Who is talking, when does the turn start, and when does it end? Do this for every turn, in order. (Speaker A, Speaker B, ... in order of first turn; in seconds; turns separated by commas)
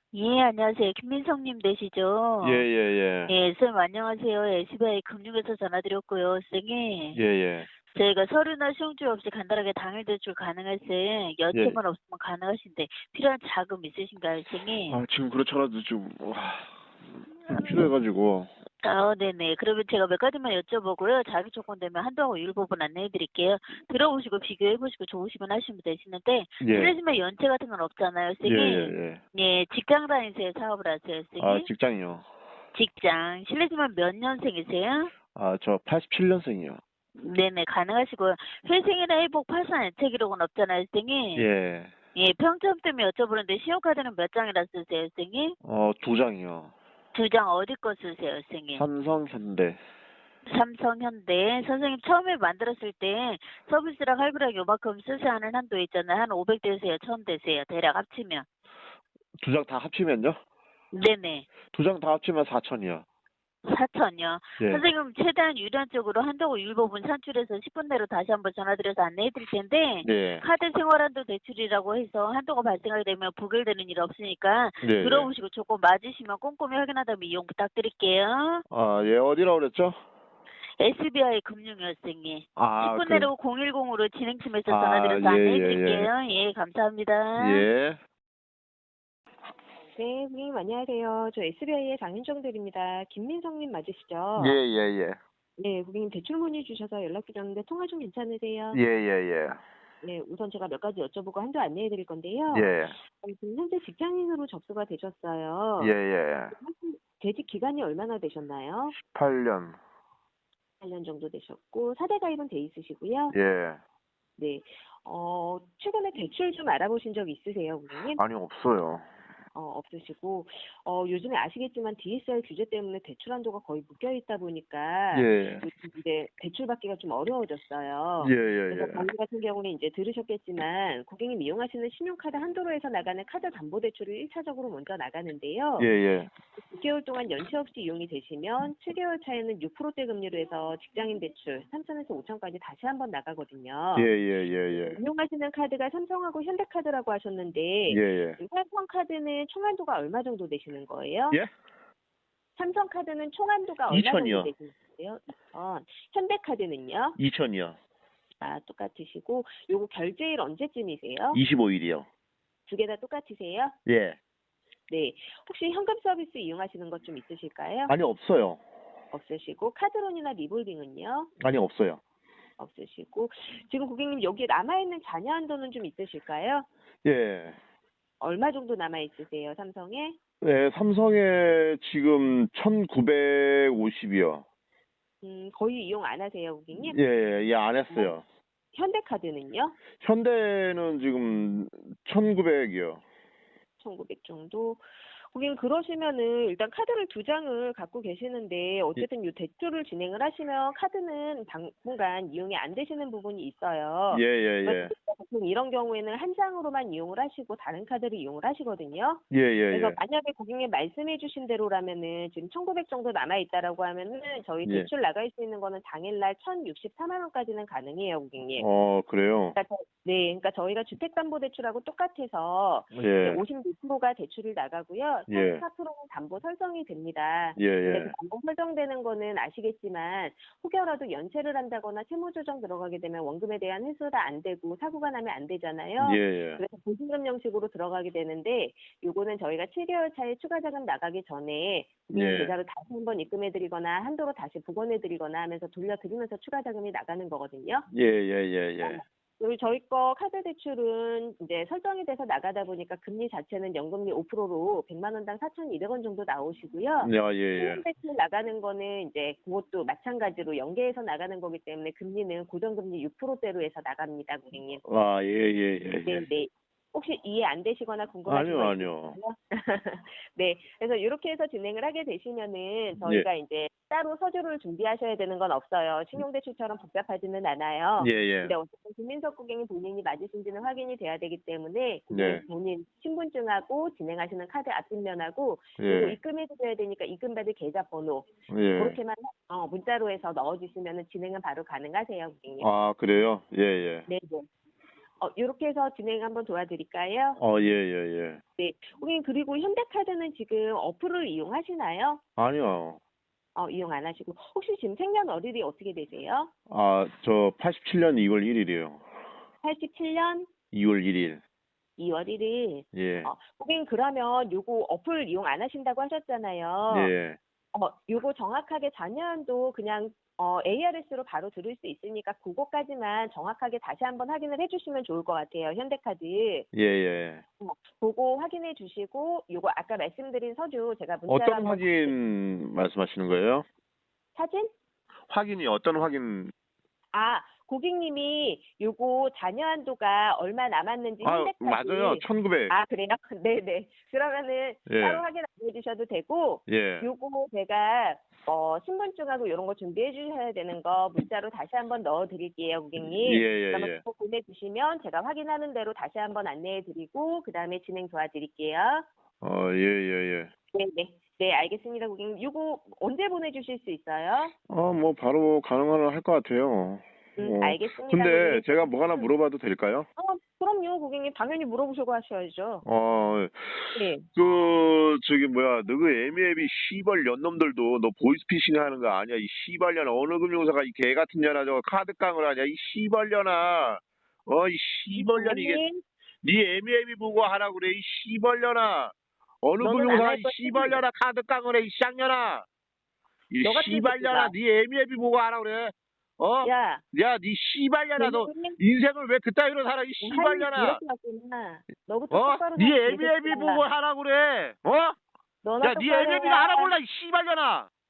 Speaker A: 0.1-2.7, Speaker B: 2.4-3.3, Speaker A: 3.3-7.2, Speaker B: 7.1-7.7, Speaker A: 7.9-15.0, Speaker B: 11.5-11.8, Speaker B: 14.9-16.7, Speaker B: 17.5-18.5, Speaker A: 18.8-31.7, Speaker B: 26.6-26.9, Speaker B: 28.4-29.2, Speaker B: 31.4-32.3, Speaker A: 32.8-35.1, Speaker B: 35.4-36.8, Speaker A: 37.2-41.5, Speaker B: 41.4-41.9, Speaker A: 42.1-45.6, Speaker B: 45.6-46.7, Speaker A: 47.1-48.9, Speaker B: 48.7-49.8, Speaker A: 50.5-58.5, Speaker B: 59.4-60.4, Speaker A: 60.9-61.5, Speaker B: 61.7-63.0, Speaker A: 63.6-78.7, Speaker B: 64.6-64.8, Speaker B: 70.0-70.4, Speaker B: 74.8-75.3, Speaker B: 78.7-80.0, Speaker A: 80.8-87.7, Speaker B: 82.6-83.3, Speaker B: 84.7-86.1, Speaker B: 87.4-88.0, Speaker C: 89.9-94.6, Speaker B: 94.4-95.2, Speaker C: 95.6-98.8, Speaker B: 98.7-99.6, Speaker C: 100.0-106.0, Speaker B: 102.5-103.0, Speaker B: 105.8-106.5, Speaker C: 106.6-109.0, Speaker B: 109.0-109.8, Speaker C: 110.8-113.3, Speaker B: 113.3-113.8, Speaker C: 114.4-118.2, Speaker B: 118.2-119.1, Speaker C: 119.5-135.9, Speaker B: 125.1-125.7, Speaker B: 128.2-129.1, Speaker B: 135.8-136.3, Speaker C: 136.6-144.1, Speaker B: 144.0-145.0, Speaker C: 144.7-151.4, Speaker B: 147.9-148.4, Speaker C: 152.6-157.2, Speaker B: 153.9-154.5, Speaker B: 157.2-157.8, Speaker C: 158.4-161.4, Speaker B: 161.3-162.1, Speaker C: 162.7-163.8, Speaker B: 163.9-164.2, Speaker C: 164.9-167.9, Speaker B: 167.9-168.6, Speaker C: 169.1-171.3, Speaker B: 171.4-172.0, Speaker C: 172.6-176.7, Speaker B: 177.0-177.6, Speaker C: 178.2-180.2, Speaker B: 180.4-184.4, Speaker C: 185.2-187.0, Speaker B: 186.7-188.2, Speaker C: 188.7-189.8, Speaker B: 190.0-193.0, Speaker C: 193.8-218.7, Speaker B: 204.1-204.9, Speaker B: 209.3-210.0, Speaker B: 218.6-219.6, Speaker C: 219.5-247.9, Speaker B: 222.9-223.4, Speaker B: 225.3-225.6, Speaker B: 227.6-228.1, Speaker B: 236.0-236.6, Speaker B: 242.1-242.5, Speaker B: 247.9-249.0, Speaker C: 248.8-264.8, Speaker B: 257.0-257.8, Speaker B: 264.8-266.2, Speaker C: 266.1-292.7, Speaker B: 268.3-269.2, Speaker B: 278.0-278.6, Speaker B: 282.1-282.4, Speaker B: 285.8-286.2, Speaker B: 288.5-289.0, Speaker B: 292.6-294.1, Speaker C: 294.1-294.5, Speaker C: 295.2-297.4, Speaker B: 297.4-298.4, Speaker C: 298.6-302.2, Speaker B: 302.4-303.0, Speaker C: 303.6-306.5, Speaker B: 306.7-309.0, Speaker C: 309.6-310.5, Speaker B: 310.7-311.4, Speaker C: 312.0-317.1, Speaker B: 312.9-313.3, Speaker B: 316.9-317.4, Speaker C: 317.7-326.7, Speaker B: 326.7-327.4, Speaker C: 327.6-332.2, Speaker B: 331.3-333.6, Speaker C: 334.4-334.7, Speaker B: 335.3-336.5, Speaker C: 337.1-359.1, Speaker B: 341.2-342.7, Speaker B: 344.9-345.2, Speaker B: 346.7-347.1, Speaker B: 353.0-354.0, Speaker B: 359.4-360.5, Speaker C: 360.7-364.5, Speaker B: 364.7-370.1, Speaker C: 367.4-369.3, Speaker C: 370.2-372.9, Speaker B: 372.8-385.8, Speaker C: 373.9-374.3, Speaker C: 385.1-386.0, Speaker B: 386.4-392.6, Speaker C: 389.8-391.0, Speaker B: 393.5-401.0, Speaker C: 393.6-394.5, Speaker C: 396.6-397.0, Speaker C: 398.2-398.8, Speaker C: 400.2-403.9, Speaker B: 402.3-405.2, Speaker C: 405.6-407.0, Speaker B: 405.8-407.9